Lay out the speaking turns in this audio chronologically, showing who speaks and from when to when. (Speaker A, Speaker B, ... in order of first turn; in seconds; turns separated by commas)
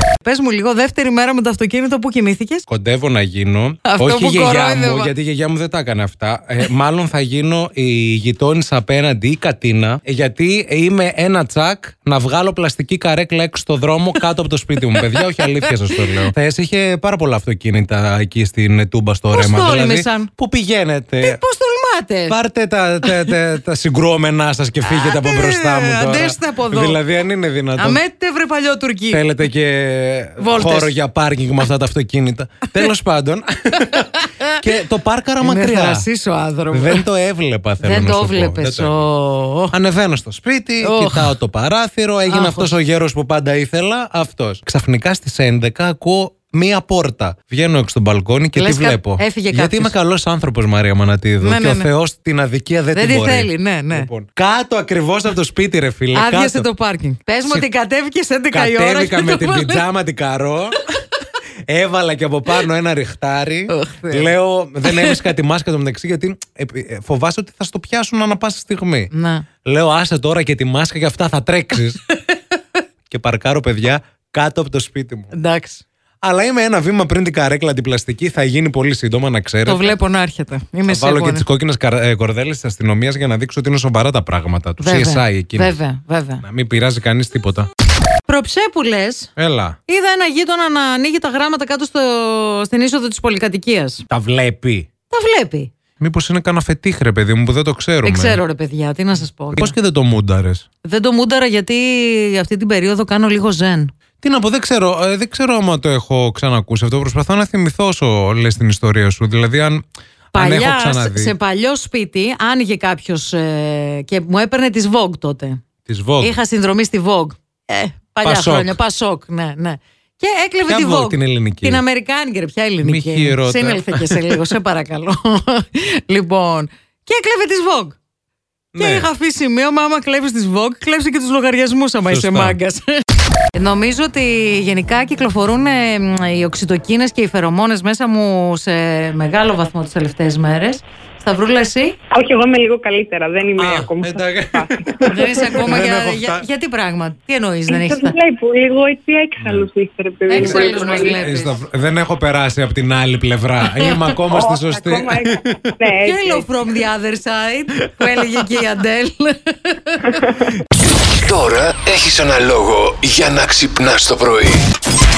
Speaker A: 0.2-2.7, Speaker B: 2.7-21.4, Speaker A: 3.9-5.1, Speaker A: 14.8-16.3, Speaker A: 19.3-20.3, Speaker A: 21.2-22.4, Speaker B: 22.3-28.0, Speaker A: 23.0-23.4, Speaker A: 24.8-27.0, Speaker A: 27.8-29.3, Speaker B: 29.1-36.1, Speaker A: 30.4-30.9, Speaker A: 33.8-34.6, Speaker A: 35.4-37.0, Speaker B: 36.7-39.0, Speaker A: 37.8-39.7, Speaker B: 39.7-56.7, Speaker A: 40.8-41.4, Speaker A: 42.3-42.7, Speaker A: 48.6-49.9, Speaker A: 51.4-51.9, Speaker A: 52.9-54.1, Speaker A: 56.1-59.9, Speaker B: 58.5-60.8, Speaker A: 60.8-61.2, Speaker B: 61.7-69.1, Speaker A: 63.7-65.2, Speaker A: 69.1-69.5, Speaker B: 69.6-72.0, Speaker A: 72.1-72.5, Speaker B: 73.1-75.3, Speaker A: 75.3-75.8, Speaker B: 76.2-80.0, Speaker A: 79.7-81.4, Speaker B: 80.9-85.7, Speaker A: 84.8-86.4, Speaker B: 86.4-87.7, Speaker A: 88.3-89.3, Speaker B: 89.4-89.8, Speaker A: 89.9-94.0, Speaker B: 94.1-94.9, Speaker A: 95.1-95.7, Speaker B: 96.0-98.4, Speaker A: 98.0-99.8, Speaker B: 99.5-100.7, Speaker A: 100.8-103.9, Speaker B: 104.2-109.8, Speaker A: 110.3-115.7, Speaker B: 110.3-111.3, Speaker B: 115.9-116.3, Speaker A: 116.2-128.0, Speaker B: 118.2-118.8, Speaker B: 120.7-121.8, Speaker B: 122.8-124.4, Speaker B: 128.7-129.1, Speaker A: 128.8-132.9, Speaker B: 132.0-132.6, Speaker A: 133.5-142.0, Speaker C: 142.1-145.6, Speaker B: 143.6-146.4, Speaker A: 145.1-148.2, Speaker C: 147.7-151.3, Speaker B: 149.4-149.7, Speaker A: 150.3-151.6, Speaker B: 150.3-155.6, Speaker A: 153.8-154.2, Speaker C: 154.3-156.5, Speaker A: 155.9-160.2, Speaker C: 160.1-160.6, Speaker D: 161.1-164.7